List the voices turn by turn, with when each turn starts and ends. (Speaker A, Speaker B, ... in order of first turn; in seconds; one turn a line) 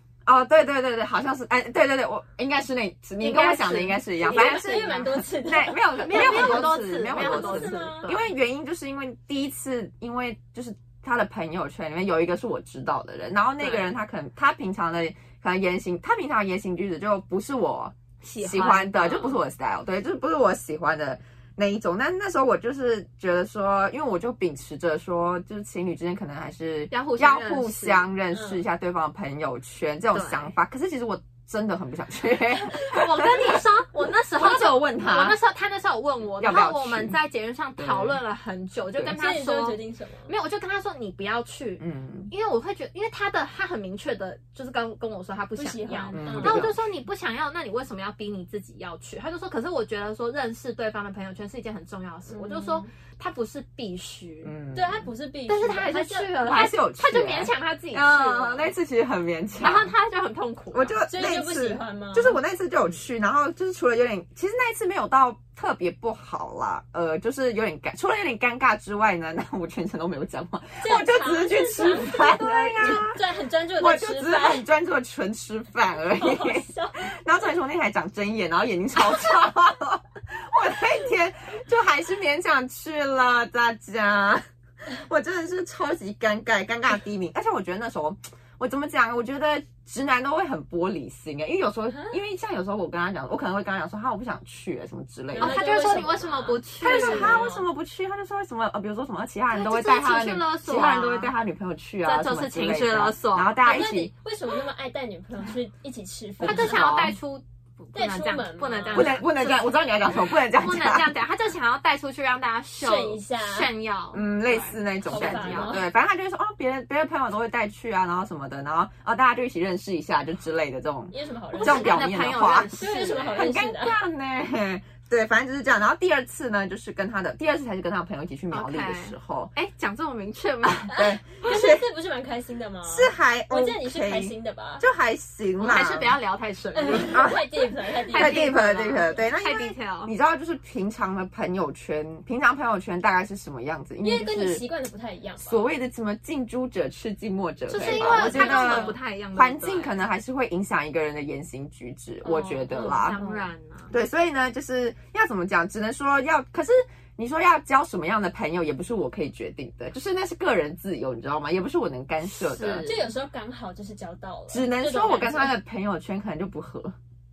Speaker A: 0.2-33.6
Speaker B: 3.2-5.0
Speaker C: 4.2-8.1
Speaker B: 6.0-8.3
Speaker B: 13.6-13.9
Speaker B: 18.2-19.4
Speaker B: 26.9-28.1
Speaker C: 28.3-28.6
Speaker B: 30.1-30.5
Speaker B: 32.7-54.5
Speaker A: 34.3-35.4
Speaker A: 36.4-37.2
Speaker A: 37.8-38.2
Speaker C: 39.1-40.3
Speaker A: 41.8-42.3
Speaker C: 45.6-46.7
Speaker A: 46.1-46.8
Speaker C: 52.3-52.9
Speaker A: 54.4-55.1
Speaker C: 54.7-56.4
Speaker B: 55.5-58.7
Speaker A: 56.4-59.9
Speaker B: 59.6-61.0
Speaker A: 60.7-73.2
Speaker C: 61.1-62.4
Speaker C: 70.8-74.7
Speaker A: 73.8-96.0
Speaker C: 76.1-76.9
Speaker C: 91.9-92.2
Speaker C: 95.3-97.7
Speaker B: 95.3-97.4
Speaker A: 96.8-104.1
Speaker B: 99.5-101.3
Speaker B: 102.0-103.5
Speaker C: 103.6-106.9
Speaker A: 106.4-107.2
Speaker B: 106.4-109.7
Speaker C: 107.9-109.2
Speaker A: 108.9-111.1
Speaker B: 110.5-115.8
Speaker C: 112.8-113.7
Speaker A: 114.1-122.7
Speaker C: 115.1-115.8
Speaker C: 121.1-122.1
Speaker B: 121.5-123.5
Speaker C: 122.8-124.0
Speaker A: 123.3-129.5
Speaker B: 128.5-131.0
Speaker A: 130.9-131.8
Speaker C: 130.9-134.8
Speaker A: 132.8-136.2
Speaker B: 135.6-137.3
Speaker C: 136.7-139.1
Speaker A: 136.9-137.5
Speaker B: 138.1-140.1
Speaker A: 138.1-144.6
Speaker C: 144.0-145.7
Speaker A: 145.4-153.2
Speaker B: 147.7-150.0
Speaker C: 147.8-148.9
Speaker B: 152.2-153.9
Speaker C: 152.7-153.4
Speaker A: 153.9-162.9
Speaker B: 162.3-163.1
Speaker C: 162.8-165.5
Speaker A: 164.5-166.9